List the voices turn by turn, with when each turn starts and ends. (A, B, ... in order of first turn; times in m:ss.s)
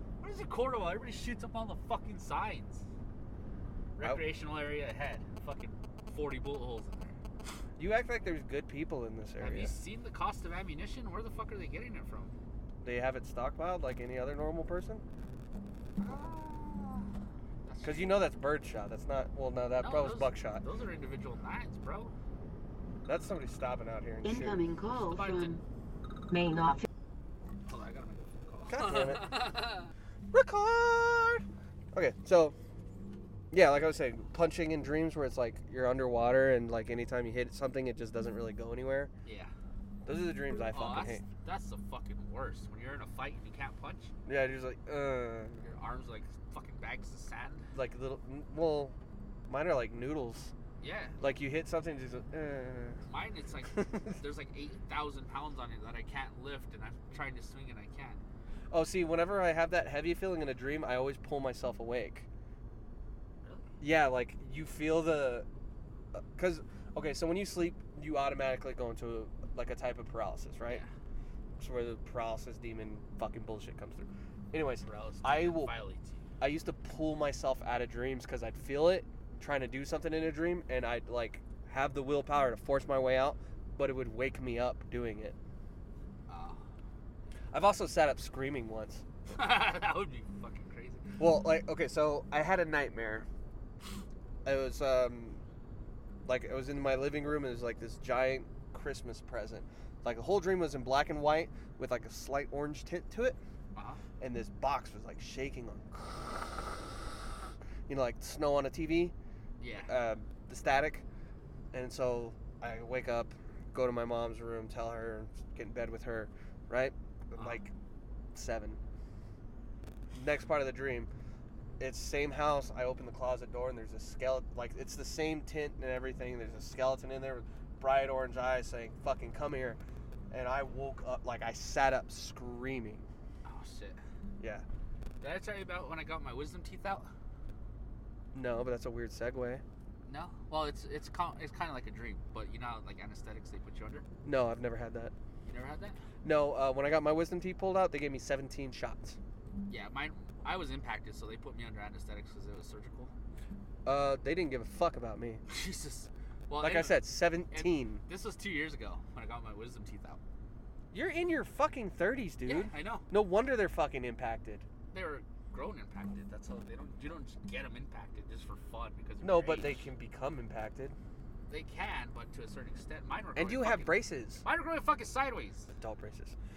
0:00.2-0:02.8 A
0:04.0-0:07.2 A
0:07.8-0:09.8 B
0:09.4-0:12.3 A
0:12.8-0:15.0 B
0:16.0-0:17.1 A
0:17.6-0:18.2 A
0:17.8-0:20.6 B
0:19.8-0:22.1 A
0:23.0-0:24.6 B
0:24.2-0:25.6 C
0:25.1-0:25.6 A
0:26.3-0:26.8 C
0:27.6-0:29.9 A
0:28.7-0:29.3 B
0:30.3-0:32.6 B
0:33.5-0:39.1 B
0:39.2-0:39.5 A
0:40.0-0:41.2 B
0:40.5-0:44.1 A
0:44.2-0:45.7 B
0:45.6-0:47.7 A
0:47.7-0:49.0 B
0:49.5-0:50.5 B
0:50.8-0:51.2 A
0:51.2-0:53.0 B
0:53.1-0:58.2 A
0:58.7-1:02.3 B
1:03.4-1:03.7 A
1:03.8-1:05.5 B
1:06.1-1:10.8 B
1:11.6-1:15.7 B
1:14.8-1:16.2 A
1:16.4-1:25.4 B
1:26.3-1:26.6 A
1:27.5-1:29.0 B
1:29.3-1:31.2 A
1:31.2-1:33.3 B
1:34.4-1:35.4 B
1:36.2-1:43.4 B
1:43.7-1:44.0 A
1:44.2-1:46.4 B
1:47.9-1:49.1 B
1:49.6-1:49.9 A
1:49.8-1:51.0 B
1:51.7-1:57.7 B
1:57.4-1:57.6 A
1:58.3-1:58.8 B
2:00.1-2:01.1 B
2:01.8-2:13.0 B
2:13.4-2:14.0 A
2:14.4-2:14.6 B
2:15.2-2:17.1 A
2:18.3-2:19.6 B
2:20.0-2:24.0 A
2:24.2-2:25.1 B
2:25.5-2:26.0 A
2:26.2-2:29.2 B
2:29.7-2:33.1 A
2:33.8-2:35.4 B
2:35.5-2:40.2 A
2:36.6-2:38.0 B
2:40.9-2:44.6 B
2:42.4-2:43.1 A
2:44.9-2:49.8 A
2:49.2-2:51.0 B
2:51.5-2:55.7 A
2:53.4-2:54.4 B
2:55.8-2:56.4 B